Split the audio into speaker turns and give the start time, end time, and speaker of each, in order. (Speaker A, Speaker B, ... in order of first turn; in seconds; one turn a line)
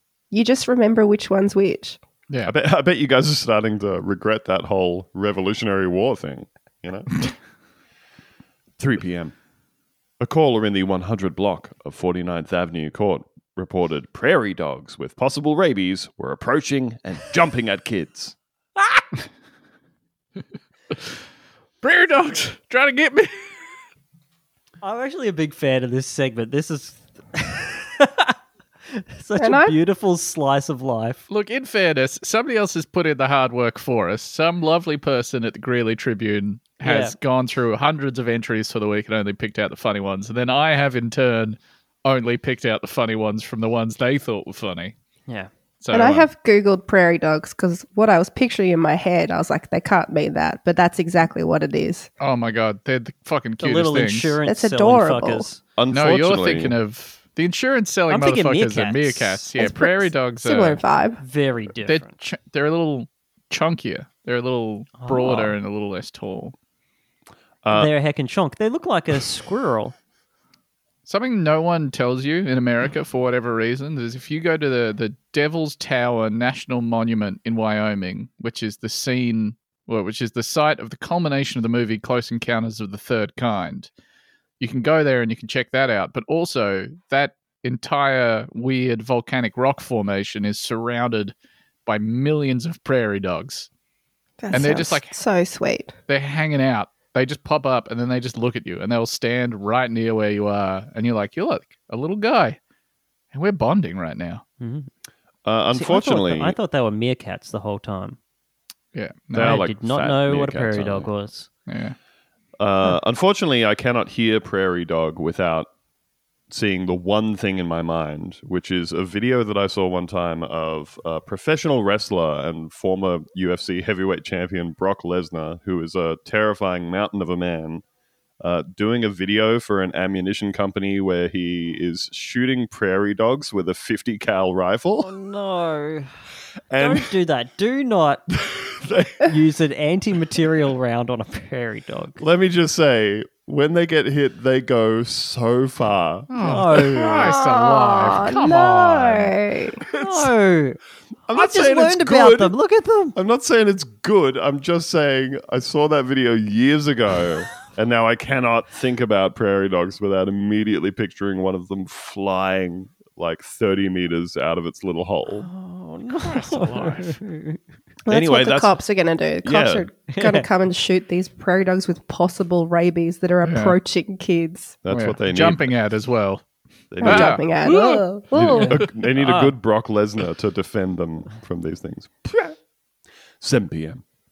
Speaker A: 0.3-2.0
Speaker B: 2.3-2.5
Speaker C: 2.5-7.1
Speaker C: 8.8-9.3
Speaker C: 10.2-18.4
Speaker B: 21.8-23.3
Speaker D: 24.8-28.4
Speaker D: 28.9-31.2
Speaker A: 29.4-29.8
Speaker B: 31.3-44.9
Speaker D: 36.8-37.1
Speaker B: 45.8-46.3
Speaker A: 45.9-52.1
Speaker B: 52.2-54.4
Speaker D: 53.6-55.6
Speaker A: 54.5-55.5
Speaker C: 55.8-56.8
Speaker B: 55.9-60.8
Speaker D: 58.1-59.5
Speaker A: 59.6-61.2
Speaker D: 61.2-62.1
Speaker B: 61.9-66.5
Speaker D: 65.0-65.6
Speaker C: 67.6-67.9
Speaker D: 67.7-70.0
Speaker B: 71.1-83.9
Speaker B: 84.6-91.3
Speaker B: 91.9-93.7
Speaker A: 94.4-95.9
Speaker B: 94.5-95.2
Speaker B: 96.1-102.6
Speaker B: 103.3-104.4
Speaker D: 104.6-104.9
Speaker C: 105.5-106.6
Speaker D: 105.7-108.2
Speaker B: 108.9-109.6
Speaker C: 109.3-111.1
Speaker D: 109.4-111.5
Speaker B: 111.7-112.0
Speaker C: 112.6-115.7
Speaker C: 116.5-127.8
Speaker C: 128.4-135.1
Speaker D: 135.0-136.1
Speaker C: 136.7-137.1
Speaker D: 136.8-138.2
Speaker C: 138.3-139.3
Speaker D: 139.2-142.2
Speaker C: 142.2-146.9
Speaker B: 146.3-149.4
Speaker D: 146.4-147.3
Speaker A: 147.2-149.8
Speaker C: 149.8-150.3
Speaker D: 150.0-150.8
Speaker C: 151.3-152.6
Speaker D: 151.3-153.2
Speaker C: 153.2-165.5
Speaker D: 165.4-167.6
Speaker B: 166.2-167.2
Speaker A: 168.1-174.8
Speaker C: 168.1-168.8
Speaker C: 169.4-169.9
Speaker D: 170.1-170.5
Speaker B: 173.4-173.8
Speaker C: 174.8-175.7
Speaker B: 174.9-176.4
Speaker C: 176.9-177.4
Speaker B: 177.0-178.0
Speaker A: 177.0-178.8
Speaker C: 178.3-182.6
Speaker D: 178.5-179.6
Speaker C: 183.4-184.0